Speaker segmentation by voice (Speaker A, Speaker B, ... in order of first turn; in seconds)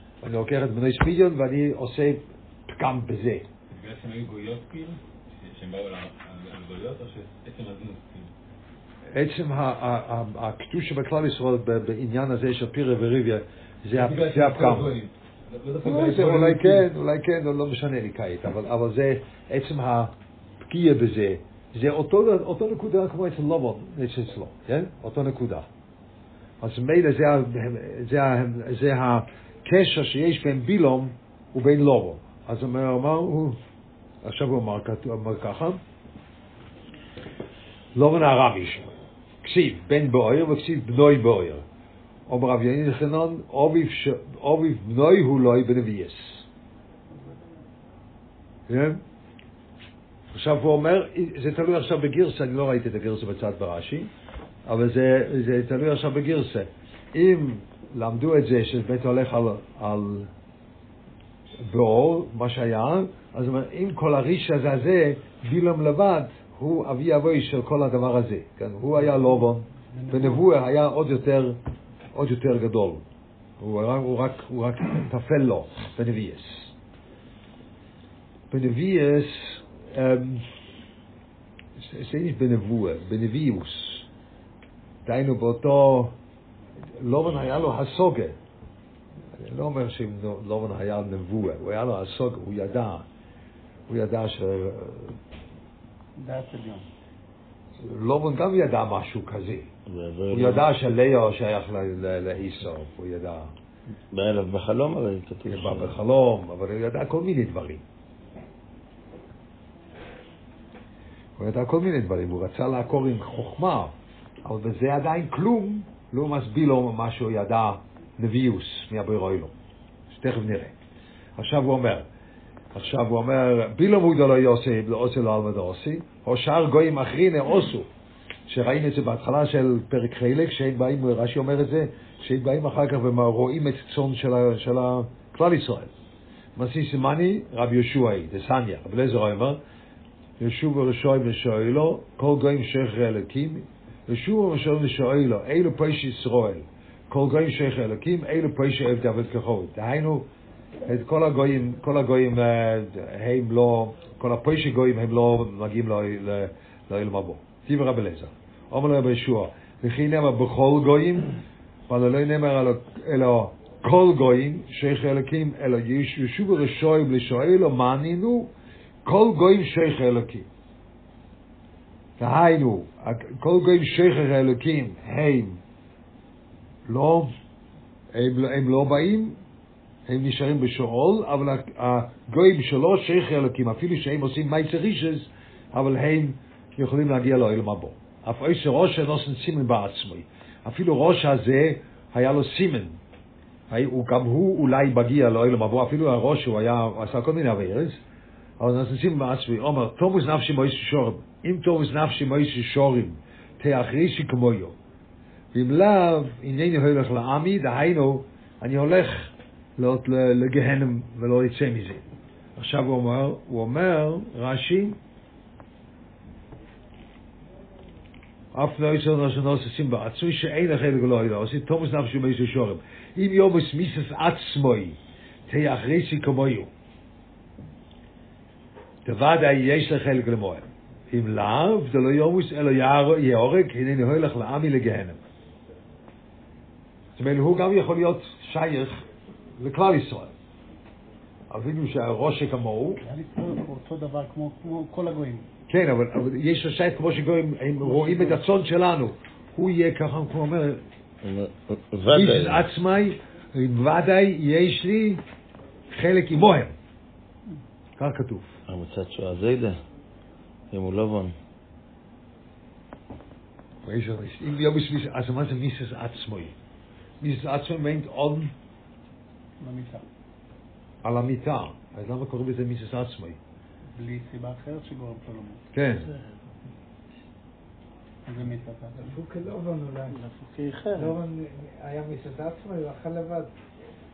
Speaker A: 0.2-3.5, 9.1-15.0, 15.8-25.7, 26.6-33.6, 34.2-35.8, 37.9-38.9, 39.4-41.6, 42.3-46.4, 48.7-49.0, 50.3-54.1, 54.6-60.3, 61.6-71.6, 72.1-73.0, 73.6-76.7, 78.5-80.4, 81.8-84.1, 85.0-86.1, 86.9-88.4, 89.3-93.0, 93.9-95.2, 97.8-99.7, 100.3-103.5, 105.5-107.8, 111.4-113.9, 114.4-119.5, 120.1-120.7, 121.4-122.1, 122.7-127.9, 128.5-135.9, 136.6-139.6, 140.4-150.3, 150.8-168.5, 169.0-170.5, 172.2-175.6, 176.9-177.3, 178.1-179.4, 180.1-193.0, 193.7-198.0, 198.6-204.8, 205.5-212.0, 212.6-215.0, 218.5-226.7, 229.0-235.2, 237.2-239.0, 239.6-240.3, 241.5-243.0, 245.7-250.8, 252.1-255.2, 255.9-256.7, 258.0-258.5, 263.8-266.5, 267.2-268.5, 271.0-273.4, 275.7-276.1
Speaker B: 3.7-8.3, 13.9-16.9
Speaker C: 69.9-70.5, 96.2-96.8, 243.0-245.5, 247.9-248.3, 269.6-270.0, 273.9-276.1, 278.2-279.1, 280.3-281.1
Speaker D: 99.9-100.7, 104.1-106.0, 251.2-252.6, 258.7-259.8, 260.7-261.3
Speaker E: 279.0-280.2, 280.9-283.5